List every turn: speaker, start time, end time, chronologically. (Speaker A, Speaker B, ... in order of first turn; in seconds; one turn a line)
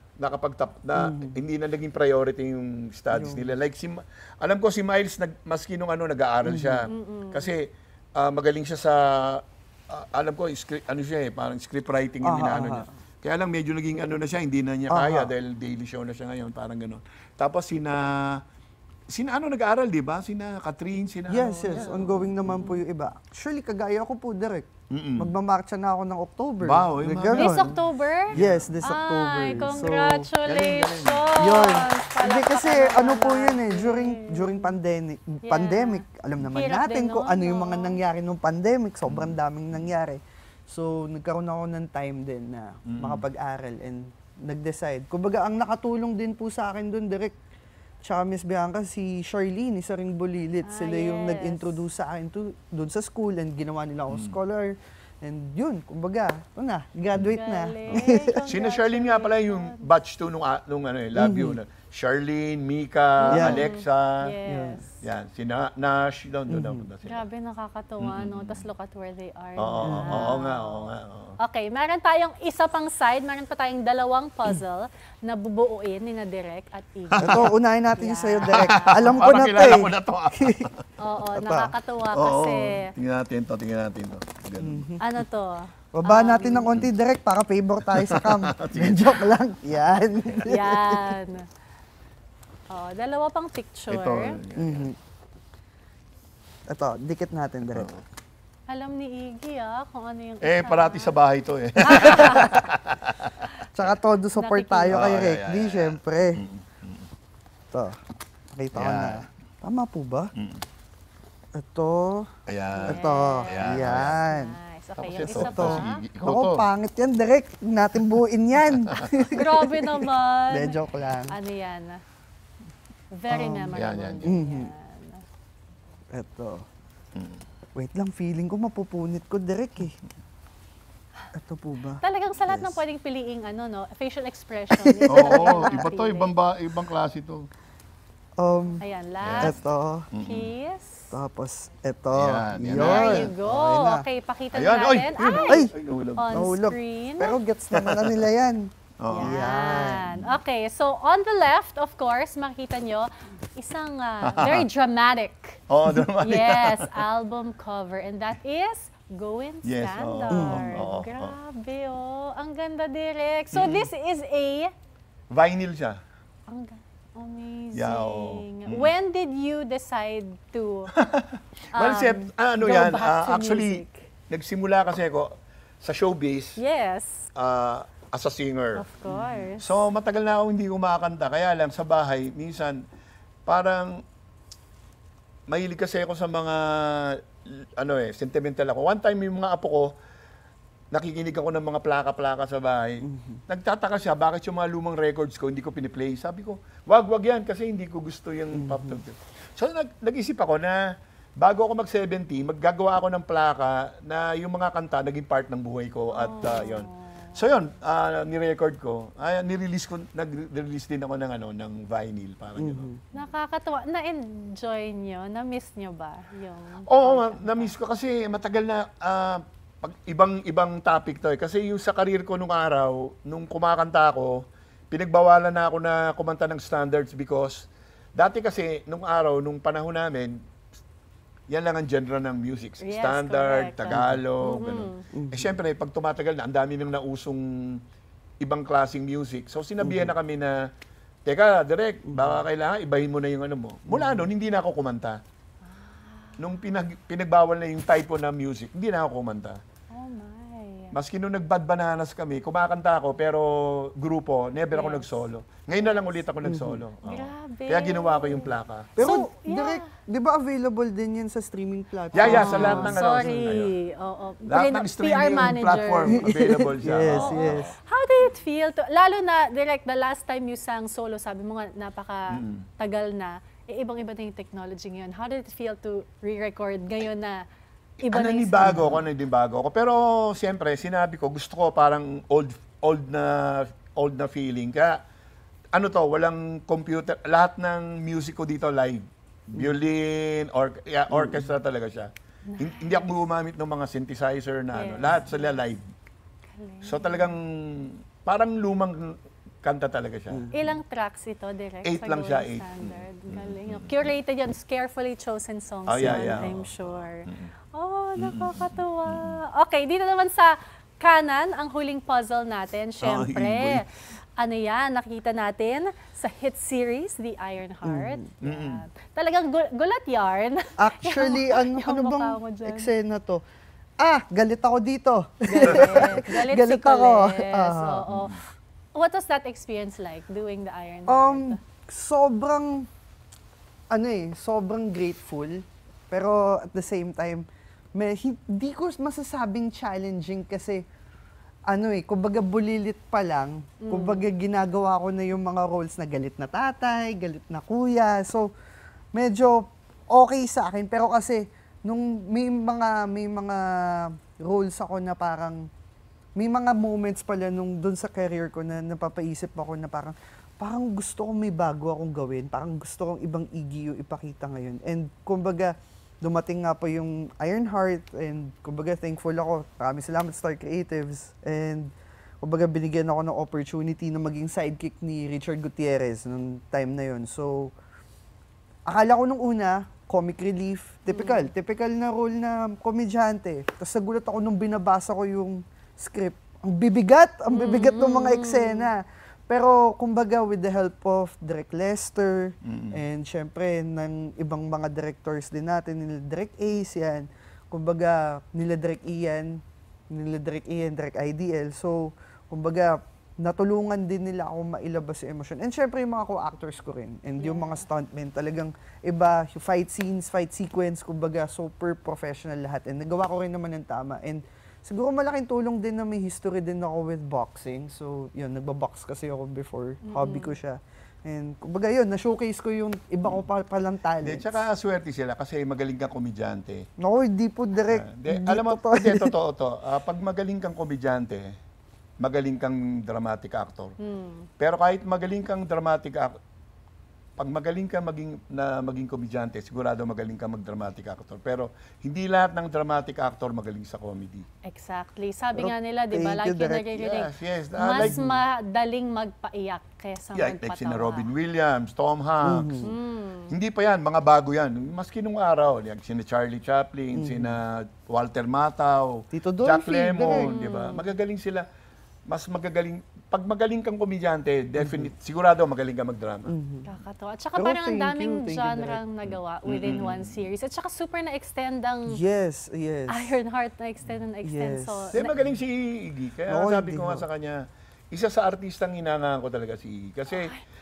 Speaker A: 0.2-18.4
Speaker B: 0.9-1.4
Speaker B: 3.1-3.5
Speaker B: 6.4-6.9
Speaker C: 6.9-7.5
Speaker B: 12.2-12.9
Speaker B: 14.9-15.3
Speaker A: 19.1-22.6
Speaker B: 21.3-24.7
Speaker A: 24.9-25.3
Speaker B: 25.2-27.7
Speaker A: 26.6-27.8
Speaker C: 27.3-34.7
Speaker A: 28.3-28.8
Speaker B: 28.3-30.3
Speaker A: 30.4-31.4
Speaker B: 31.4-47.4
Speaker C: 35.5-38.0
Speaker A: 39.0-39.9
Speaker A: 42.9-43.2
Speaker B: 48.0-58.3
Speaker C: 50.6-51.7
Speaker A: 54.1-54.4
Speaker C: 57.2-59.8
Speaker A: 57.9-64.3
Speaker B: 61.1-61.6
Speaker C: 63.2-65.0
Speaker B: 63.3-63.6
Speaker B: 64.4-64.8
Speaker A: 65.0-67.2
Speaker B: 66.5-66.8
Speaker C: 67.0-79.4
Speaker A: 68.0-68.7
Speaker A: 69.6-71.4
Speaker B: 69.8-70.3
Speaker A: 77.2-77.5
Speaker B: 77.2-80.7
Speaker A: 78.4-80.7
Speaker C: 81.0-82.9
Speaker B: 81.3-81.7
Speaker A: 82.1-84.9
Speaker B: 84.6-85.0
Speaker C: 85.0-86.7
Speaker B: 85.9-91.2
Speaker A: 87.8-89.4
Speaker C: 90.4-91.5
Speaker C: 92.7-94.4
Speaker A: 93.9-94.9
Speaker B: 94.5-94.9
Speaker B: 96.7-97.9
Speaker A: 97.7-98.0
Speaker C: 98.7-101.2
Speaker A: 100.4-103.5
Speaker C: 101.9-102.5
Speaker B: 103.8-106.4
Speaker C: 104.4-105.2
Speaker A: 104.9-107.1
Speaker B: 107.7-108.0
Speaker B: 108.5-110.3
Speaker A: 108.7-109.2
Speaker A: 110.4-110.6
Speaker B: 111.5-112.3
Speaker A: 112.5-114.2
Speaker C: 112.7-116.0
Speaker B: 112.9-114.5
Speaker A: 115.0-116.6
Speaker B: 115.2-121.4
Speaker C: 119.3-120.8
Speaker C: 121.3-122.0
Speaker C: 123.1-125.2
Speaker B: 123.3-124.7
Speaker A: 123.7-124.4
Speaker B: 126.1-126.6
Speaker A: 127.2-127.4
Speaker B: 127.8-130.0
Speaker B: 131.3-132.0
Speaker C: 132.0-136.3
Speaker B: 134.8-135.9
Speaker A: 135.1-137.4
Speaker B: 138.4-138.8
Speaker C: 138.8-139.6
Speaker A: 139.2-139.6
Speaker B: 139.4-140.1
Speaker A: 140.1-140.5
Speaker C: 140.2-141.1
Speaker B: 141.1-144.0
Speaker A: 142.1-143.3
Speaker C: 142.7-147.4
Speaker A: 144.5-146.5
Speaker B: 146.3-150.1
Speaker A: 147.8-148.1
Speaker A: 149.0-150.4
Speaker C: 149.1-155.6
Speaker A: 154.3-154.7
Speaker A: 155.7-157.0
Speaker C: 156.2-164.7
Speaker A: 159.6-161.4
Speaker B: 160.3-160.9
Speaker A: 163.5-163.9
Speaker A: 165.3-166.0
Speaker C: 166.5-170.9
Speaker A: 167.7-168.9
Speaker A: 170.9-175.3
Speaker C: 171.7-174.1
Speaker A: 175.8-176.6
Speaker C: 176.6-177.3
Speaker A: 177.4-178.9
Speaker C: 178.8-179.7
Speaker B: 179.1-179.5
Speaker A: 179.6-182.8
Speaker A: 183.5-184.0
Speaker A: 185.5-189.9
Speaker A: 190.9-200.8
Speaker B: 193.0-193.4
Speaker B: 198.5-199.0
Speaker A: 201.4-212.9
Speaker C: 206.1-207.5
Speaker B: 212.6-213.0
Speaker C: 213.1-217.7
Speaker A: 216.9-230.4
Speaker A: 231.5-237.8
Speaker C: 232.8-235.0
Speaker B: 233.9-234.2
Speaker B: 235.1-235.5
Speaker A: 238.4-240.6
Speaker B: 239.8-240.1
Speaker A: 241.2-245.2
Speaker B: 242.1-242.4
Speaker B: 243.9-244.3
Speaker C: 245.6-246.5
Speaker A: 246.4-249.6
Speaker C: 249.9-250.9
Speaker A: 250.9-259.1
Speaker C: 254.7-255.1
Speaker C: 255.8-256.2
Speaker B: 256.4-256.8
Speaker C: 257.0-258.5
Speaker B: 258.9-263.0
Speaker C: 259.0-259.8
Speaker A: 262.1-263.7
Speaker C: 262.2-266.3
Speaker A: 264.5-267.6
Speaker B: 266.1-267.7
Speaker C: 267.1-277.4
Speaker A: 272.3-272.6
Speaker A: 278.0-285.0
Speaker C: 278.0-278.9
Speaker B: 278.6-279.0
Speaker A: 285.7-295.8
Speaker B: 291.1-291.4
Speaker C: 292.5-293.1
Speaker C: 294.7-295.6
Speaker C: 296.5-297.3
Speaker A: 296.8-300.5
Speaker B: 300.3-300.6
Speaker C: 300.5-313.9
Speaker A: 301.8-304.1
Speaker A: 305.9-307.5
Speaker B: 306.0-306.5
Speaker A: 308.2-309.4
Speaker A: 313.0-313.8
Speaker C: 314.4-322.9
Speaker B: 317.8-318.2
Speaker A: 318.4-318.8
Speaker B: 320.8-323.4
Speaker B: 324.0-328.0
Speaker C: 325.5-328.4
Speaker A: 325.8-326.2
Speaker A: 328.1-328.4
Speaker C: 328.9-331.6
Speaker B: 331.1-332.9
Speaker B: 333.9-340.8
Speaker B: 341.7-348.4
Speaker C: 343.8-344.2
Speaker B: 349.1-355.6
Speaker B: 356.4-365.7
Speaker B: 366.2-371.9
Speaker B: 372.4-377.7
Speaker B: 378.9-399.6
Speaker C: 381.1-381.5
Speaker C: 387.5-388.9
Speaker A: 392.6-393.0
Speaker B: 400.1-424.6
Speaker C: 407.4-407.8
Speaker C: 420.0-420.5
Speaker A: 424.2-426.8
Speaker B: 427.0-429.3
Speaker A: 427.9-431.4
Speaker A: 432.2-433.9
Speaker C: 434.0-434.5
Speaker A: 434.6-436.3
Speaker A: 437.4-444.4
Speaker C: 444.6-451.3
Speaker B: 445.6-446.9
Speaker A: 446.9-448.2
Speaker B: 448.0-448.4
Speaker A: 450.3-452.9
Speaker B: 452.4-452.9
Speaker C: 452.8-453.6
Speaker A: 453.5-461.6
Speaker B: 457.1-457.5
Speaker B: 459.3-460.5
Speaker C: 460.3-461.0
Speaker A: 462.3-466.5
Speaker B: 464.8-465.1
Speaker B: 466.5-466.9
Speaker C: 466.9-472.2
Speaker B: 467.6-469.0
Speaker A: 469.2-470.5
Speaker B: 472.1-473.4
Speaker C: 473.1-475.4
Speaker B: 474.4-475.1
Speaker A: 475.1-480.5
Speaker B: 476.5-477.2
Speaker C: 480.3-480.6